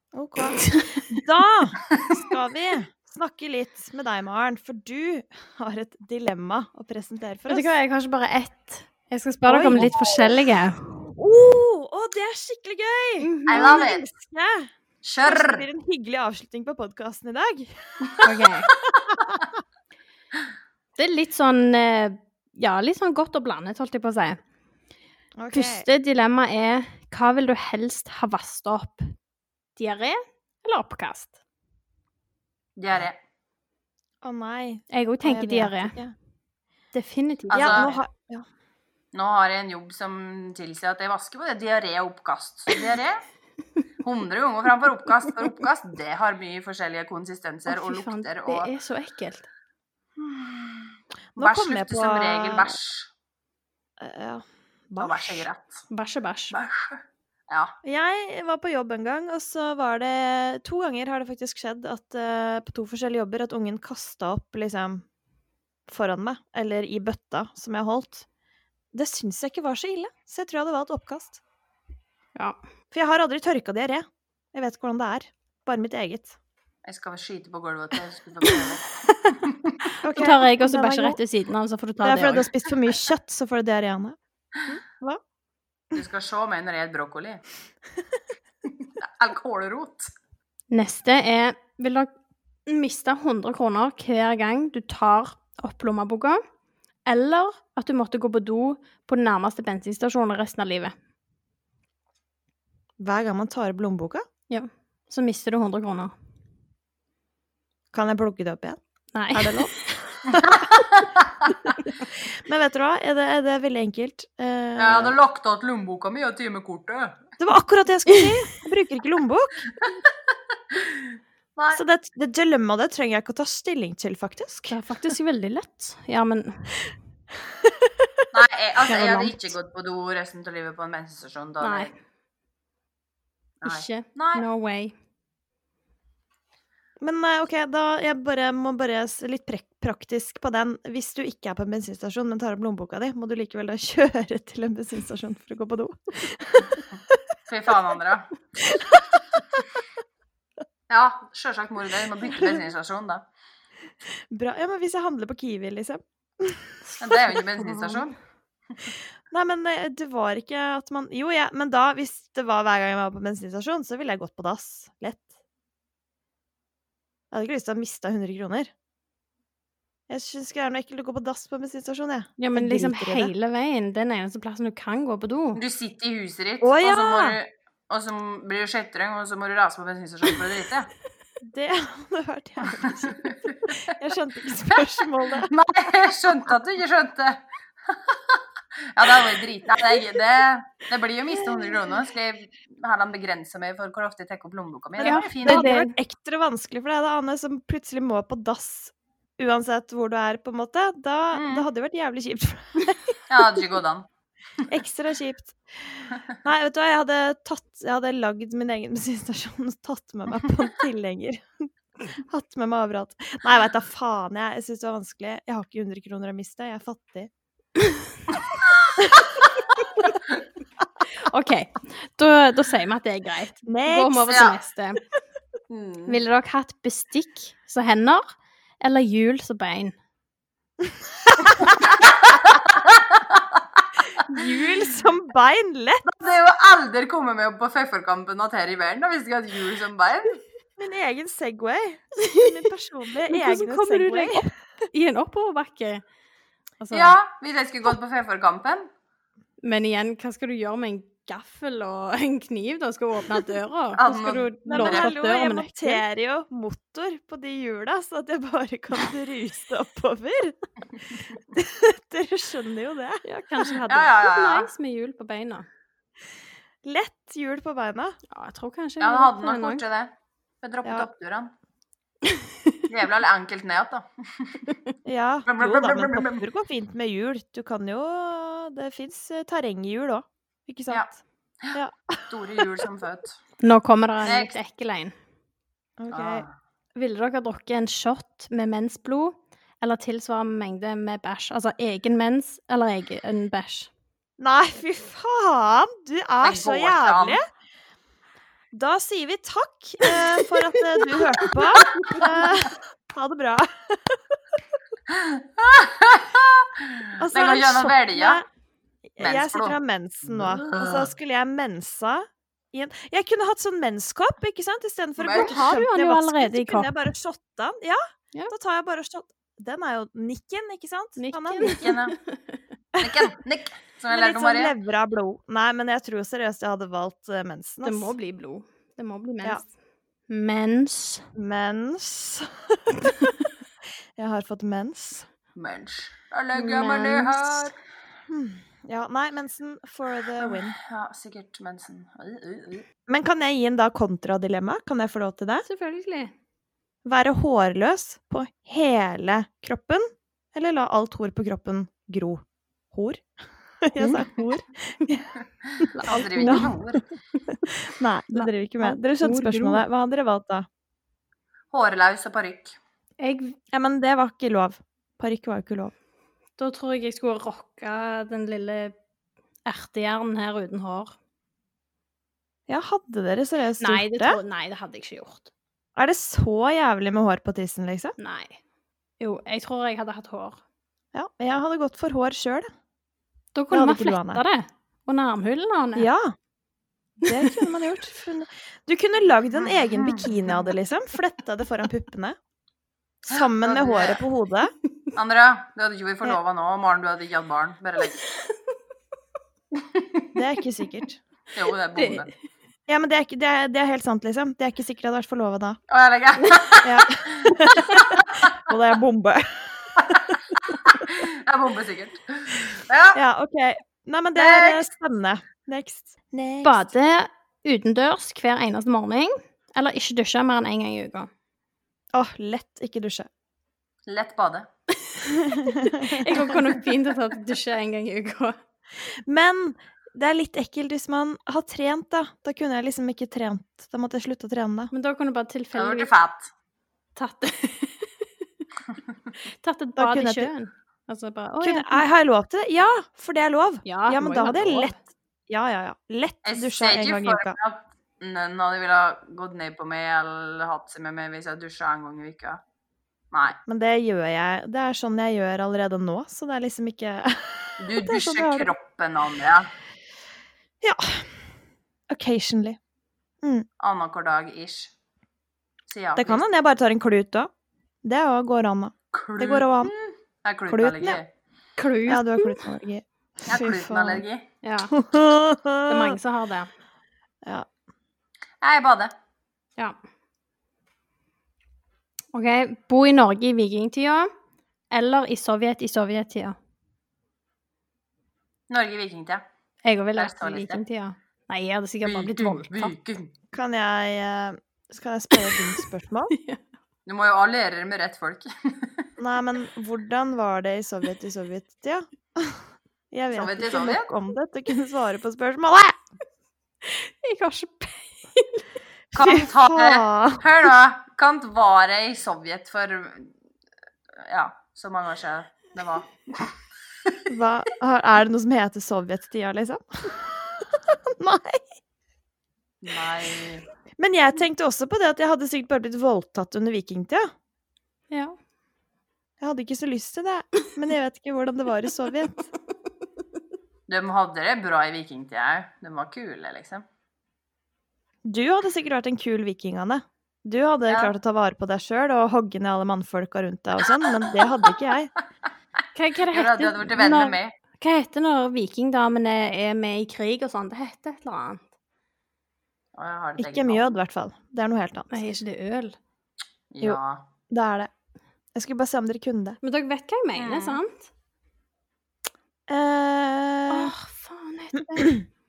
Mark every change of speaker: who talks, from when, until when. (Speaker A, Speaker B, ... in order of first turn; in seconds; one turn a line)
Speaker A: 0.1-7.7
Speaker B: 7.5-10.9
Speaker A: 9.4-10.4
Speaker A: 11.0-14.7
Speaker B: 13.2-13.9
Speaker C: 13.5-14.1
Speaker C: 15.0-15.6
Speaker A: 15.2-18.3
Speaker B: 18.2-18.7
Speaker A: 19.1-19.4
Speaker B: 21.0-24.4
Speaker A: 25.4-25.9
Speaker B: 25.5-29.1
Speaker B: 29.8-31.3
Speaker C: 32.8-33.2
Speaker A: 34.2-36.1
Speaker B: 34.9-36.0
Speaker B: 36.9-38.0
Speaker C: 37.5-37.9
Speaker A: 37.5-38.5
Speaker C: 39.1-43.2
Speaker C: 44.0-48.7
Speaker B: 47.7-49.5
Speaker A: 51.4-52.8
Speaker C: 51.4-53.1
Speaker A: 54.0-55.5
Speaker C: 55.0-55.9
Speaker B: 55.9-56.6
Speaker C: 56.5-57.7
Speaker A: 57.8-65.0
Speaker A: 65.9-68.2
Speaker A: 68.9-71.4
Speaker A: 72.9-76.4
Speaker C: 76.8-79.9
Speaker A: 80.0-81.2
Speaker B: 80.0-82.5
Speaker A: 82.0-85.2
Speaker C: 85.9-87.4
Speaker C: 88.8-90.1
Speaker B: 90.7-92.1
Speaker B: 92.7-96.4
Speaker B: 97.1-100.9
Speaker A: 103.0-104.2
Speaker B: 104.5-106.1
Speaker A: 107.9-108.8
Speaker B: 109.1-109.9
Speaker A: 109.3-110.8
Speaker C: 110.3-111.6
Speaker A: 112.1-115.2
Speaker C: 114.8-117.2
Speaker A: 117.4-119.7
Speaker C: 119.8-120.1
Speaker C: 120.7-121.8
Speaker A: 121.7-124.8
Speaker B: 124.7-126.8
Speaker C: 128.3-131.9
Speaker B: 128.9-129.5
Speaker B: 131.6-131.9
Speaker C: 133.6-134.4
Speaker B: 133.6-134.9
Speaker A: 137.0-146.8
Speaker C: 147.4-148.3
Speaker A: 148.7-149.2
Speaker C: 150.9-153.2
Speaker A: 154.1-157.3
Speaker C: 157.0-158.1
Speaker B: 157.6-158.0
Speaker A: 159.3-165.3
Speaker A: 167.3-168.7
Speaker A: 170.1-173.3
Speaker B: 172.4-175.6
Speaker C: 175.6-180.9
Speaker A: 176.6-177.4
Speaker A: 181.4-185.5
Speaker C: 182.8-183.8
Speaker C: 185.4-188.4
Speaker C: 188.9-195.8
Speaker A: 191.5-191.8
Speaker B: 195.0-195.9
Speaker A: 195.1-203.6
Speaker C: 201.3-201.7
Speaker C: 203.3-204.1
Speaker A: 204.7-211.7
Speaker A: 212.2-217.3
Speaker C: 218.3-220.4
Speaker B: 221.2-225.0
Speaker A: 223.7-224.4
Speaker C: 224.3-224.6
Speaker C: 225.7-226.2
Speaker B: 226.1-229.9
Speaker C: 231.4-234.2
Speaker A: 234.3-236.1
Speaker C: 236.1-240.4
Speaker A: 240.8-244.5
Speaker B: 242.2-242.5
Speaker B: 243.3-246.0
Speaker B: 246.8-247.2
Speaker C: 246.9-248.9
Speaker B: 249.6-256.0
Speaker C: 253.9-255.1
Speaker A: 254.7-260.6
Speaker A: 261.5-263.7
Speaker B: 263.2-265.7
Speaker C: 263.9-264.7
Speaker A: 266.8-268.2
Speaker B: 268.3-269.8
Speaker C: 269.0-271.5
Speaker C: 272.9-274.8
Speaker A: 275.1-281.2
Speaker C: 275.4-276.4
Speaker A: 281.7-282.7
Speaker C: 282.3-283.4
Speaker B: 283.6-285.1
Speaker C: 284.2-284.5
Speaker A: 286.0-286.4
Speaker C: 286.1-286.5
Speaker B: 286.9-293.9
Speaker A: 294.4-297.4
Speaker C: 296.4-297.4
Speaker A: 298.7-304.6
Speaker C: 301.9-302.2
Speaker C: 305.1-308.4
Speaker A: 307.2-308.4
Speaker A: 309.1-321.8
Speaker C: 309.2-311.1
Speaker C: 315.2-315.6
Speaker B: 315.3-317.1
Speaker B: 321.2-322.6
Speaker C: 321.6-322.1
Speaker C: 323.0-324.7
Speaker A: 324.1-328.1
Speaker B: 327.8-329.7
Speaker B: 330.3-331.3
Speaker A: 331.4-333.3
Speaker A: 334.1-335.3
Speaker C: 335.6-337.7
Speaker B: 336.5-337.7
Speaker A: 338.3-340.7
Speaker C: 340.4-342.9
Speaker A: 343.1-345.7
Speaker B: 345.6-346.3
Speaker A: 347.1-353.2
Speaker A: 353.8-357.0
Speaker B: 354.0-354.3
Speaker C: 355.6-357.1
Speaker A: 357.6-360.7
Speaker B: 358.4-359.9
Speaker C: 361.7-362.8
Speaker B: 363.2-363.6
Speaker A: 363.7-365.9
Speaker B: 366.6-368.9
Speaker B: 369.6-371.1
Speaker A: 372.7-374.4
Speaker B: 373.8-375.5
Speaker A: 375.9-378.2
Speaker B: 378.2-378.6
Speaker B: 379.2-380.6
Speaker A: 381.1-382.7
Speaker B: 383.6-386.1
Speaker A: 383.7-384.4
Speaker A: 385.9-386.3
Speaker A: 387.2-392.4
Speaker B: 387.3-387.7
Speaker C: 389.9-390.6
Speaker A: 393.2-394.7
Speaker C: 393.3-394.2
Speaker C: 395.1-398.2
Speaker C: 399.8-400.3
Speaker A: 400.4-401.2
Speaker C: 401.5-402.3
Speaker B: 401.9-402.2
Speaker A: 402.9-405.8
Speaker C: 405.9-408.6
Speaker A: 406.8-410.4
Speaker C: 409.9-413.2
Speaker A: 413.1-416.9
Speaker C: 414.4-414.9
Speaker B: 416.6-421.3
Speaker A: 422.1-423.3
Speaker C: 424.1-424.7
Speaker A: 425.2-426.8
Speaker B: 425.9-428.6
Speaker A: 429.0-434.9
Speaker B: 434.9-436.1
Speaker C: 435.7-436.5
Speaker B: 437.1-438.3
Speaker B: 439.4-442.0
Speaker A: 440.0-440.5
Speaker A: 441.6-447.6
Speaker B: 443.9-444.9
Speaker C: 446.4-452.6
Speaker C: 453.3-453.6
Speaker A: 453.7-458.7
Speaker C: 457.8-459.7
Speaker A: 460.8-461.4
Speaker A: 462.1-462.8
Speaker C: 463.8-464.9
Speaker C: 465.9-466.4
Speaker A: 466.1-467.5
Speaker A: 468.0-469.9
Speaker C: 469.1-471.3
Speaker A: 470.7-471.2
Speaker B: 471.8-472.6
Speaker A: 472.1-474.2
Speaker C: 473.4-474.5
Speaker B: 474.6-474.9
Speaker A: 474.9-476.2
Speaker B: 475.9-476.7
Speaker A: 477.4-477.7
Speaker C: 478.6-479.1
Speaker B: 482.3-484.3
Speaker B: 484.9-486.6
Speaker C: 488.7-489.4
Speaker B: 489.8-492.9
Speaker C: 490.1-490.8
Speaker C: 492.1-493.3
Speaker A: 493.5-496.3
Speaker B: 495.4-495.7
Speaker B: 496.3-496.6
Speaker C: 497.1-499.1
Speaker A: 499.2-506.0
Speaker C: 503.3-504.1
Speaker B: 506.8-508.6
Speaker C: 509.1-513.3
Speaker A: 509.2-510.7
Speaker C: 514.2-517.3
Speaker A: 517.3-521.6
Speaker C: 522.8-523.6
Speaker A: 524.0-527.3
Speaker B: 528.1-528.4
Speaker A: 529.4-532.5
Speaker C: 533.9-536.9
Speaker A: 538.2-545.1
Speaker C: 540.9-541.1
Speaker B: 545.9-551.6
Speaker C: 546.3-547.5
Speaker C: 552.9-553.9
Speaker A: 553.4-555.3
Speaker B: 555.1-556.0
Speaker C: 556.7-557.2
Speaker A: 556.8-557.9
Speaker A: 558.5-559.6
Speaker B: 559.6-561.1
Speaker C: 560.4-560.8
Speaker A: 562.7-563.9
Speaker B: 563.7-565.2